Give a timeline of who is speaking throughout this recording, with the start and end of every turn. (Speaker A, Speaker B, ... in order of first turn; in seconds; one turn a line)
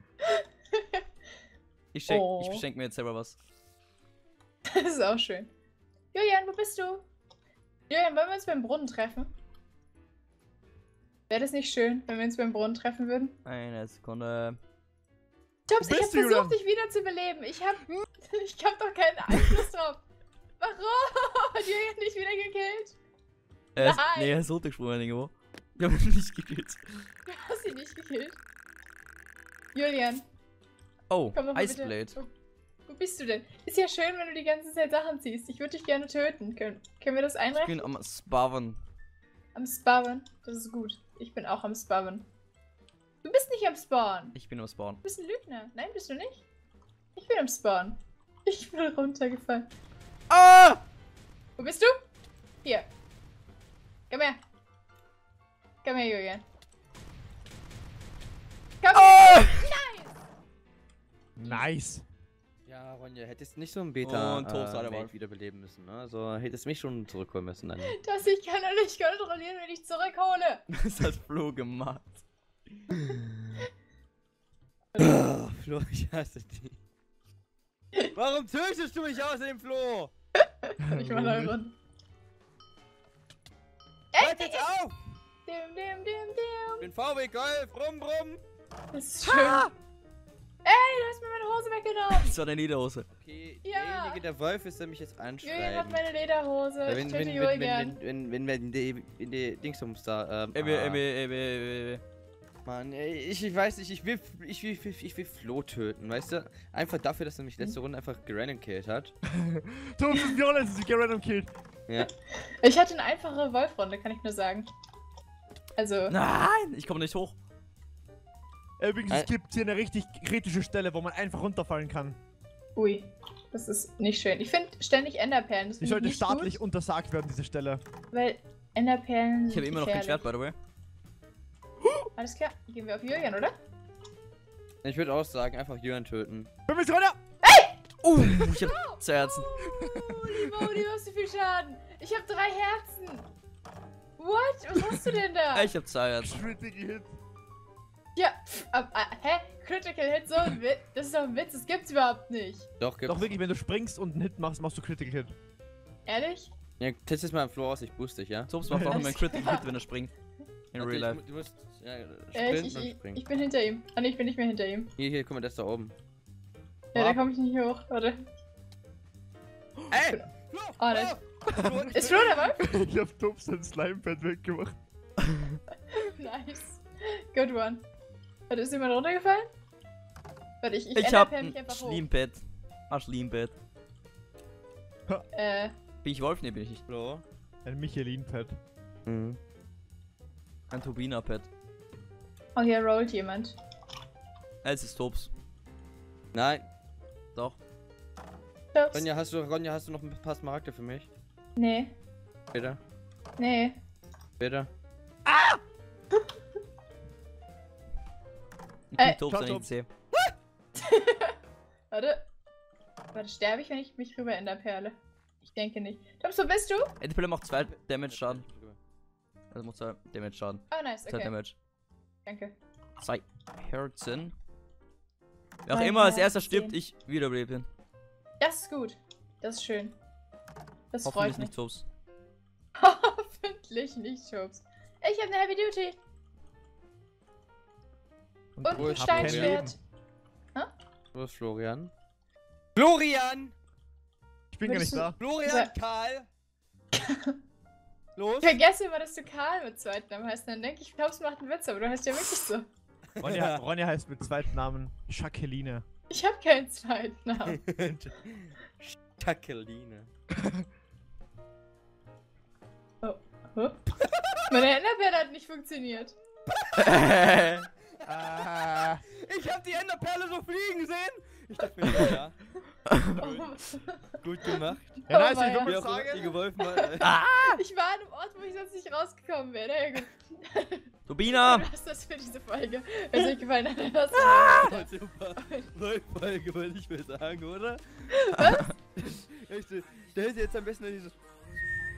Speaker A: 0.2-1.0
Speaker B: 1.9-3.4
Speaker A: 2.1-2.6
Speaker A: 4.7-5.5
Speaker A: 6.1-7.0
Speaker A: 7.9-9.3
Speaker A: 11.3-13.4
Speaker B: 13.4-14.6
Speaker A: 15.7-20.0
Speaker C: 15.8-16.6
Speaker A: 20.6-23.0
Speaker B: 23.7-26.8
Speaker A: 23.8-24.4
Speaker A: 27.2-28.4
Speaker A: 29.7-30.2
Speaker B: 31.1-32.2
Speaker A: 31.3-32.3
Speaker A: 32.9-37.9
Speaker B: 37.5-38.8
Speaker A: 39.5-42.2
Speaker A: 43.2-44.4
Speaker B: 44.3-45.0
Speaker A: 45.0-46.4
Speaker A: 47.1-49.7
Speaker B: 50.3-50.8
Speaker A: 51.6-51.9
Speaker A: 54.1-54.4
Speaker A: 55.8-56.4
Speaker A: 58.8-60.2
Speaker B: 58.9-59.7
Speaker C: 61.4-62.0
Speaker A: 61.4-61.7
Speaker D: 62.6-67.9
Speaker B: 64.0-65.1
Speaker A: 67.9-70.6
Speaker B: 70.7-72.2
Speaker D: 75.0-76.8
Speaker D: 78.1-80.1
Speaker A: 80.4-81.8
Speaker C: 80.8-81.5
Speaker A: 84.1-84.7
Speaker D: 84.2-85.0
Speaker A: 85.5-86.9
Speaker D: 86.8-88.4
Speaker A: 88.9-89.7
Speaker A: 90.6-92.4
Speaker B: 92.1-93.1
Speaker D: 93.1-96.0
Speaker A: 93.6-94.2
Speaker A: 95.4-98.0
Speaker D: 96.8-101.0
Speaker B: 100.5-102.0
Speaker D: 102.6-109.1
Speaker C: 109.3-111.5
Speaker A: 112.0-114.7
Speaker A: 115.8-116.1
Speaker B: 116.1-117.3
Speaker C: 118.8-122.2
Speaker A: 122.8-126.6
Speaker C: 125.8-127.8
Speaker A: 128.1-130.3
Speaker B: 129.5-130.5
Speaker A: 132.2-133.5
Speaker D: 134.8-136.5
Speaker C: 136.7-137.2
Speaker A: 137.4-137.8
Speaker B: 138.0-139.5
Speaker A: 138.3-139.0
Speaker C: 139.7-140.7
Speaker A: 139.8-143.3
Speaker A: 144.2-145.7
Speaker B: 145.5-146.4
Speaker C: 146.2-147.2
Speaker A: 148.2-152.7
Speaker D: 152.8-153.3
Speaker C: 153.1-155.3
Speaker A: 156.1-156.5
Speaker D: 156.8-158.5
Speaker B: 158.5-160.1
Speaker C: 158.7-159.0
Speaker A: 158.8-159.7
Speaker B: 160.7-161.2
Speaker D: 160.8-163.2
Speaker A: 162.3-164.9
Speaker D: 164.9-165.9
Speaker A: 166.9-168.3
Speaker D: 166.9-167.2
Speaker D: 169.9-172.5
Speaker A: 170.8-171.2
Speaker C: 171.5-174.8
Speaker A: 171.9-172.6
Speaker A: 175.9-177.8
Speaker A: 178.5-179.5
Speaker A: 180.6-182.1
Speaker B: 180.9-183.5
Speaker A: 185.3-185.7
Speaker B: 186.0-186.8
Speaker D: 186.9-187.2
Speaker C: 187.6-188.6
Speaker D: 189.1-189.4
Speaker B: 190.7-191.5
Speaker A: 192.5-193.6
Speaker B: 194.6-195.3
Speaker D: 196.3-196.6
Speaker A: 198.7-199.1
Speaker D: 198.9-201.1
Speaker A: 201.6-201.9
Speaker D: 202.5-202.8
Speaker A: 203.4-203.8
Speaker D: 204.4-204.7
Speaker C: 205.3-205.6
Speaker B: 208.9-209.9
Speaker C: 209.2-209.7
Speaker A: 210.8-211.3
Speaker A: 211.9-212.2
Speaker A: 213.1-214.9
Speaker A: 215.4-216.9
Speaker B: 217.0-218.4
Speaker D: 217.5-218.8
Speaker B: 219.5-221.5
Speaker A: 220.7-221.3
Speaker A: 222.2-222.5
Speaker B: 223.0-224.3
Speaker B: 225.6-227.7
Speaker A: 225.7-226.8
Speaker A: 228.4-229.9
Speaker A: 230.9-231.5
Speaker B: 231.0-231.8
Speaker A: 232.8-236.0
Speaker C: 238.6-239.7
Speaker A: 238.6-239.8
Speaker D: 238.7-239.6
Speaker D: 241.1-241.9
Speaker D: 242.8-243.5
Speaker C: 244.5-245.2
Speaker A: 244.6-245.7
Speaker D: 245.2-246.3
Speaker A: 246.9-247.4
Speaker D: 248.2-248.6
Speaker A: 248.4-252.7
Speaker D: 253.2-253.6
Speaker C: 253.2-255.8
Speaker A: 256.1-257.6
Speaker D: 257.5-260.1
Speaker A: 263.0-263.8
Speaker A: 264.5-266.1
Speaker D: 266.5-267.5
Speaker B: 266.8-267.7
Speaker C: 268.1-269.0
Speaker D: 268.1-272.4
Speaker B: 271.9-272.1
Speaker B: 272.9-273.2
Speaker A: 273.2-274.1
Speaker D: 274.2-275.1
Speaker C: 275.1-276.4
Speaker A: 275.1-275.8
Speaker D: 275.6-277.2
Speaker A: 276.7-285.7
Speaker B: 277.1-277.6
Speaker B: 281.1-281.7
Speaker D: 284.2-288.1
Speaker A: 288.1-288.7
Speaker B: 288.4-288.7
Speaker D: 288.9-291.1